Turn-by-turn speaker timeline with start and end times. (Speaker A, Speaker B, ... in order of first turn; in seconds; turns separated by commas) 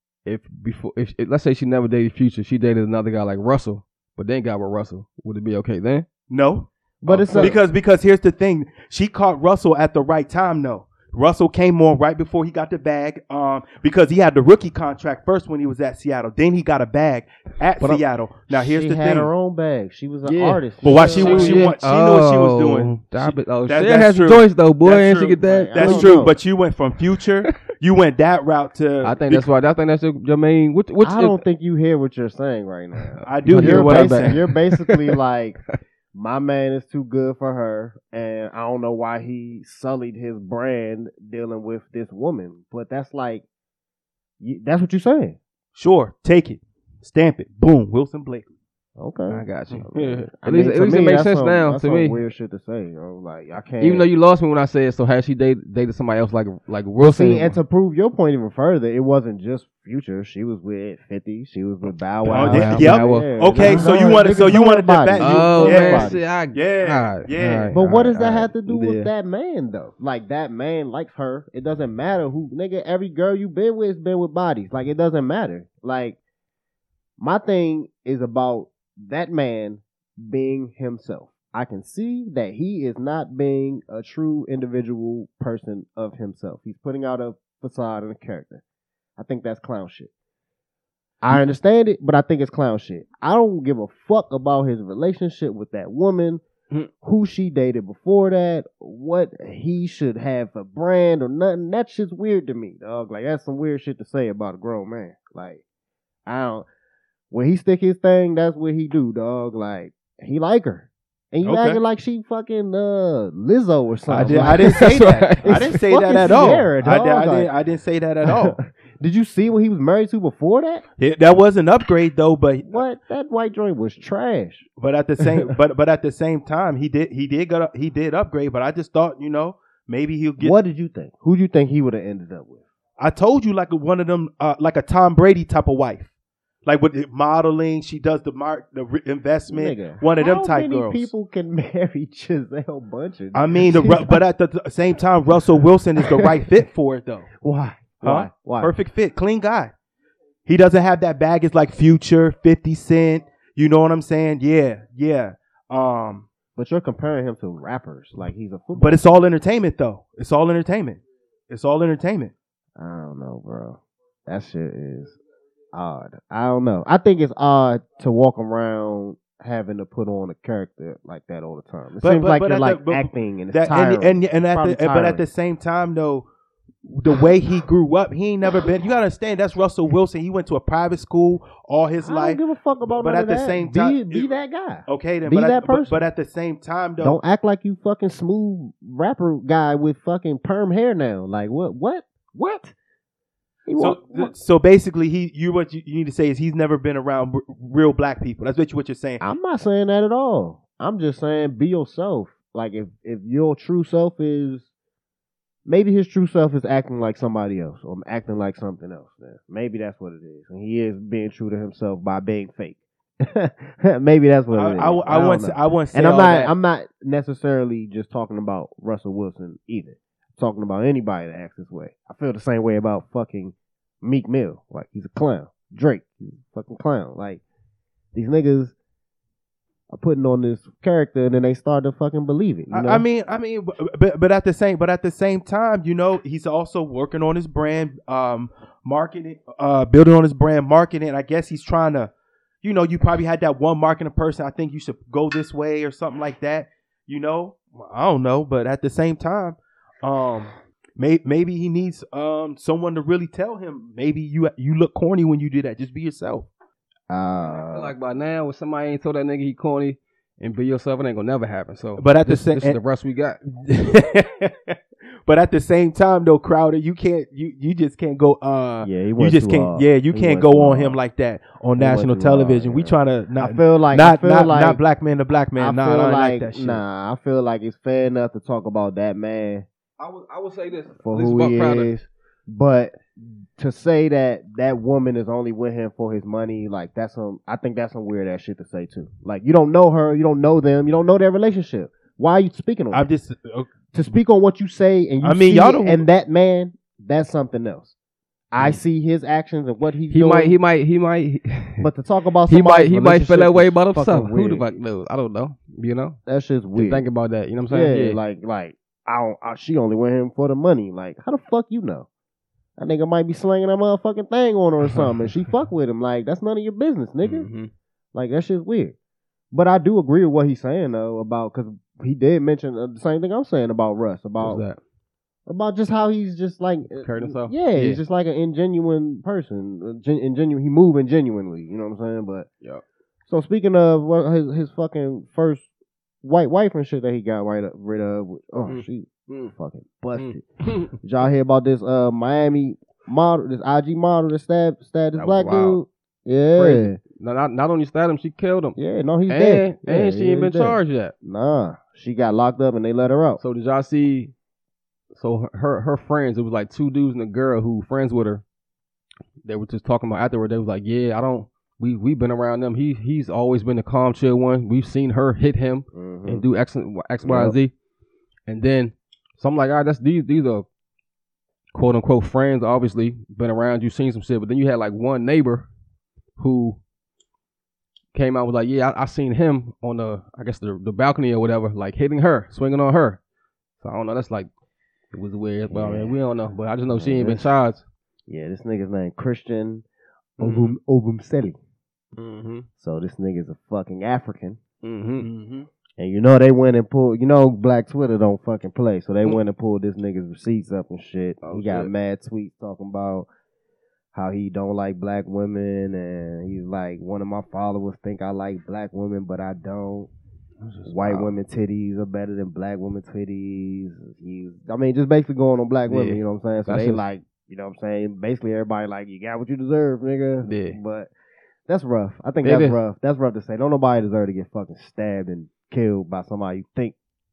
Speaker A: 0.2-6.0, Speaker B: 6.3-19.3, Speaker C: 7.0-7.6, Speaker A: 7.3-7.6, Speaker C: 18.5-21.7, Speaker A: 20.2-26.2, Speaker B: 20.8-29.5, Speaker C: 25.4-26.4, Speaker A: 29.0-31.4, Speaker C: 31.0-35.6, Speaker A: 33.2-35.1, Speaker B: 33.2-34.5, Speaker C: 36.1-43.4, Speaker C: 44.4-45.4, Speaker B: 45.7-48.5, Speaker C: 49.0-54.1, Speaker A: 49.3-52.2, Speaker A: 53.8-57.5, Speaker C: 57.0-66.2, Speaker A: 62.2-64.0, Speaker B: 62.3-67.7, Speaker A: 65.2-69.1, Speaker C: 67.7-76.2, Speaker C: 77.2-88.6, Speaker C: 89.2-90.1, Speaker C: 91.2-96.4, Speaker C: 97.0-105.6, Speaker C: 106.2-106.7, Speaker C: 107.3-117.5, Speaker B: 111.4-111.8, Speaker B: 114.1-118.6, Speaker A: 114.2-115.7, Speaker C: 118.2-120.8, Speaker B: 121.0-122.8, Speaker C: 122.7-124.6, Speaker B: 124.8-130.5, Speaker C: 125.2-125.5, Speaker C: 130.4-132.6, Speaker B: 133.0-136.1, Speaker B: 136.6-141.1, Speaker C: 139.5-144.2, Speaker B: 143.3-147.3, Speaker C: 146.0-146.5, Speaker C: 147.4-148.7, Speaker B: 148.0-149.7, Speaker B: 150.4-156.3, Speaker C: 156.6-159.0, Speaker B: 158.7-162.3, Speaker C: 162.8-165.2, Speaker C: 165.7-175.2, Speaker B: 172.0-176.3, Speaker B: 176.8-184.3, Speaker C: 182.0-186.0, Speaker B: 184.9-187.2, Speaker C: 187.0-192.7, Speaker C: 193.7-194.3, Speaker B: 193.8-199.2, Speaker C: 199.2-204.7, Speaker C: 205.7-227.4, Speaker B: 214.5-216.5, Speaker C: 228.1-228.7, Speaker C: 229.9-233.0, Speaker B: 232.7-242.1, Speaker B: 242.6-256.5, Speaker C: 257.1-257.9, Speaker A: 257.7-263.4, Speaker B: 262.0-262.8, Speaker B: 263.4-276.8, Speaker C: 268.8-271.0, Speaker C: 271.8-274.8, Speaker C: 275.6-279.6, Speaker A: 280.0-281.9, Speaker C: 281.0-293.1, Speaker B: 292.9-293.7, Speaker C: 293.9-297.9, Speaker B: 295.2-296.0, Speaker C: 298.5-300.6, Speaker A: 300.1-301.9, Speaker C: 301.8-304.6, Speaker A: 302.5-306.2, Speaker C: 306.2-307.1, Speaker A: 306.7-308.2, Speaker C: 307.7-312.1, Speaker C: 312.8-317.5, Speaker A: 317.2-317.7, Speaker C: 318.1-318.9, Speaker C: 319.5-324.6, Speaker A: 324.4-324.8, Speaker C: 325.5-332.5, Speaker A: 327.0-328.0, Speaker C: 333.3-335.6, Speaker C: 336.2-347.0, Speaker A: 338.7-339.5, Speaker A: 340.1-340.9, Speaker A: 345.2-345.8, Speaker A: 346.5-348.8, Speaker C: 348.8-353.4, Speaker A: 349.3-351.1, Speaker A: 353.4-354.3, Speaker A: 355.1-358.4, Speaker A: 359.4-367.7, Speaker C: 365.9-366.4, Speaker C: 367.2-367.6, Speaker A: 368.5-370.6, Speaker A: 371.7-375.7, Speaker A: 376.4-376.8, Speaker A: 378.1-383.2, Speaker A: 383.8-384.5, Speaker A: 385.1-387.8, Speaker C: 385.7-386.2, Speaker C: 386.9-387.5, Speaker C: 388.3-389.8, Speaker C: 390.4-391.6, Speaker A: 390.4-390.8, Speaker A: 392.2-392.7, Speaker C: 392.8-394.6, Speaker A: 394.8-395.3, Speaker B: 395.2-395.6, Speaker C: 396.0-403.3, Speaker A: 401.4-401.9, Speaker C: 404.1-410.1, Speaker A: 410.6-411.3, Speaker C: 410.9-421.1, Speaker A: 415.9-417.0, Speaker A: 420.4-420.8, Speaker C: 421.7-426.9, Speaker A: 422.4-422.8